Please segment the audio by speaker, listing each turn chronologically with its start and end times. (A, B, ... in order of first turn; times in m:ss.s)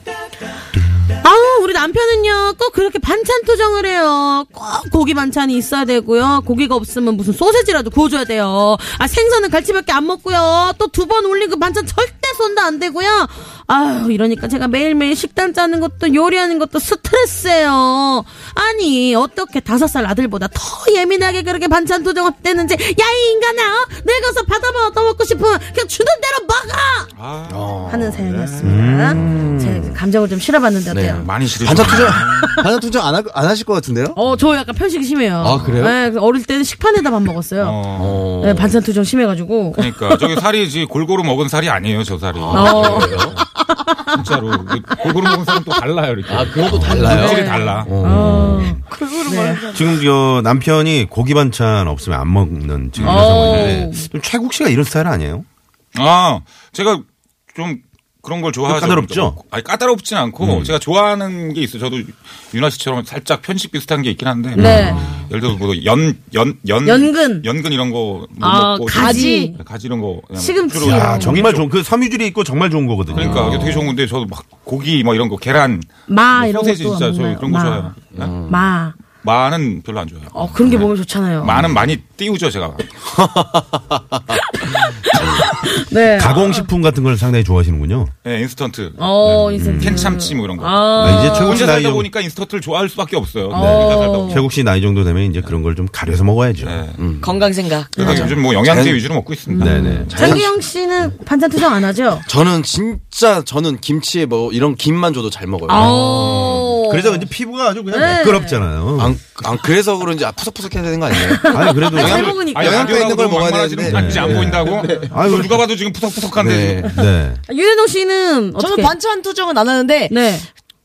0:01.2-0:27.1 A
0:27.1-0:27.7 B
0:27.5-0:28.2 C
0:27.9-0:31.2 A
0:28.2-0:28.7 B
0:28.6-0:29.3 D
0:29.1-0:29.9 C
0:30.9-0:34.2 C
0:31.2-0:32.5 B
0:32.1-0:32.6 A
0:34.2-0:37.8 A
0:35.4-0:36.0 C
0:37.6-0:38.2 B
0:38.0-0:38.8 C
0:38.4-0:40.3 A
0:39.8-0:43.4 B
0:42.4-0:43.4 C
0:42.5-0:43.5 A
0:44.1-0:48.1 B
0:46.3-0:48.6 C
0:46.7-0:47.2 D
0:46.9-0:49.6 A
0:48.0-0:48.8 D
0:48.6-0:50.0 E
0:49.7-0:55.5 D
0:53.0-0:53.8 B
0:53.0-0:54.1 A
0:56.0-1:11.7 B
0:58.6-0:59.4 D
1:00.4-1:00.7 D
1:04.6-1:05.2 A
1:04.6-1:05.1 D
1:06.8-1:07.5 A
1:08.4-1:09.6 A
1:08.9-1:09.5 E
1:10.4-1:11.5 A
1:10.8-1:13.9 D
1:13.1-1:18.4 B
1:13.2-1:13.8 C
1:16.1-1:19.0 A
1:18.1-1:18.7 C
1:19.2-1:22.9 B
1:20.3-1:21.5 A
1:21.4-1:21.9 C
1:23.2-1:24.0 C
1:24.6-1:26.7 A
1:26.1-1:28.1 D
1:28.2-1:34.5 B
1:29.0-1:31.7 A
1:29.6-1:30.1 D
1:31.0-1:32.1 D
1:33.5-1:34.4 A
1:33.5-1:36.8 D
1:36.6-1:37.0 B
1:37.0-1:37.4 C
1:37.2-1:38.3 E
1:38.0-1:39.9 B
1:38.0-1:39.1 C
1:39.5-1:42.2 A
1:39.6-1:40.4 D
1:39.6-1:40.5 C
1:42.2-1:45.9 C
1:45.7-1:47.3 A
1:45.7-1:49.2 D
1:47.9-1:48.6 A
1:49.0-1:55.2 C
1:51.2-1:53.0 A
1:51.5-1:52.4 D
1:52.0-1:56.9 B
1:53.8-1:55.6 D
1:56.4-1:57.0 C
1:56.9-1:57.4 D
1:57.0-1:58.9 A
1:58.6-2:00.2 E
2:00.1-2:00.5 A